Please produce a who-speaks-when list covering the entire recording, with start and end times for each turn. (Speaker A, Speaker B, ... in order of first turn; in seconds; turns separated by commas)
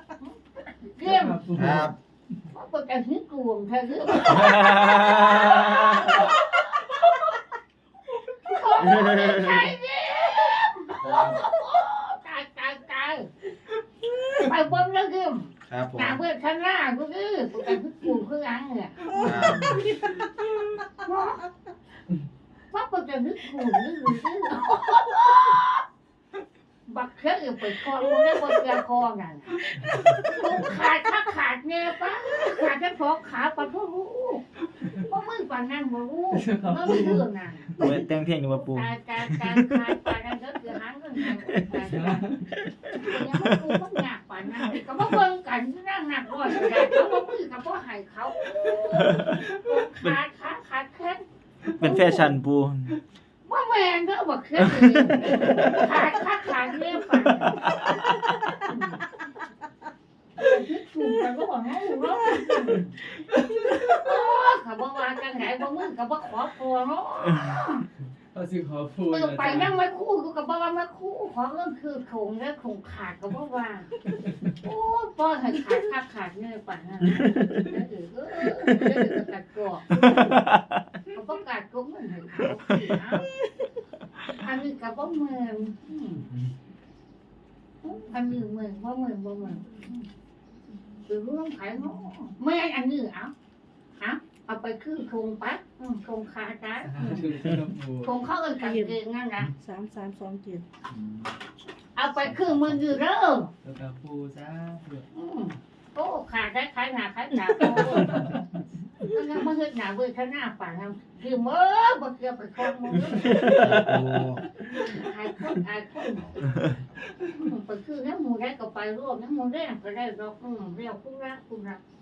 Speaker A: 0.1-1.4, Speaker B: 1.0-1.9, Speaker C: 1.5-2.0, Speaker A: 2.5-7.0, Speaker D: 4.5-6.2, Speaker A: 8.4-13.3, Speaker D: 9.0-9.6, Speaker C: 11.0-11.5, Speaker A: 14.3-19.4, Speaker C: 15.7-16.2, Speaker E: 19.1-20.2, Speaker C: 19.2-19.8, Speaker B: 19.3-20.2, Speaker A: 21.0-21.5, Speaker A: 22.7-25.8, Speaker A: 26.9-29.6, Speaker B: 29.8-30.2, Speaker A: 30.2-38.0, Speaker B: 36.3-37.3, Speaker D: 37.7-39.9, Speaker A: 38.5-42.3, Speaker D: 41.2-41.8, Speaker B: 41.9-42.5, Speaker D: 42.6-43.7, Speaker A: 42.9-51.2, Speaker D: 48.9-50.2, Speaker A: 51.8-52.4, Speaker D: 51.8-53.0, Speaker A: 53.5-57.6, Speaker D: 54.6-55.7, Speaker D: 57.6-58.5, Speaker A: 58.6-59.0, Speaker A: 60.4-63.0, Speaker A: 63.9-67.9, Speaker B: 68.3-69.8, Speaker A: 69.1-73.9, Speaker A: 74.6-80.3, Speaker D: 77.1-77.5, Speaker D: 80.0-80.8, Speaker A: 81.1-83.3, Speaker A: 84.4-86.3, Speaker A: 87.8-90.1, Speaker A: 91.1-93.3, Speaker A: 94.0-97.3, Speaker B: 96.8-98.1, Speaker A: 98.0-99.5, Speaker E: 98.6-99.0, Speaker E: 99.5-100.6, Speaker C: 100.9-101.3, Speaker A: 102.0-103.5, Speaker C: 102.2-103.0, Speaker B: 103.6-105.1, Speaker A: 105.1-108.4, Speaker A: 109.1-113.8, Speaker C: 113.4-114.5, Speaker A: 114.7-116.4, Speaker C: 116.5-116.9, Speaker A: 117.3-121.8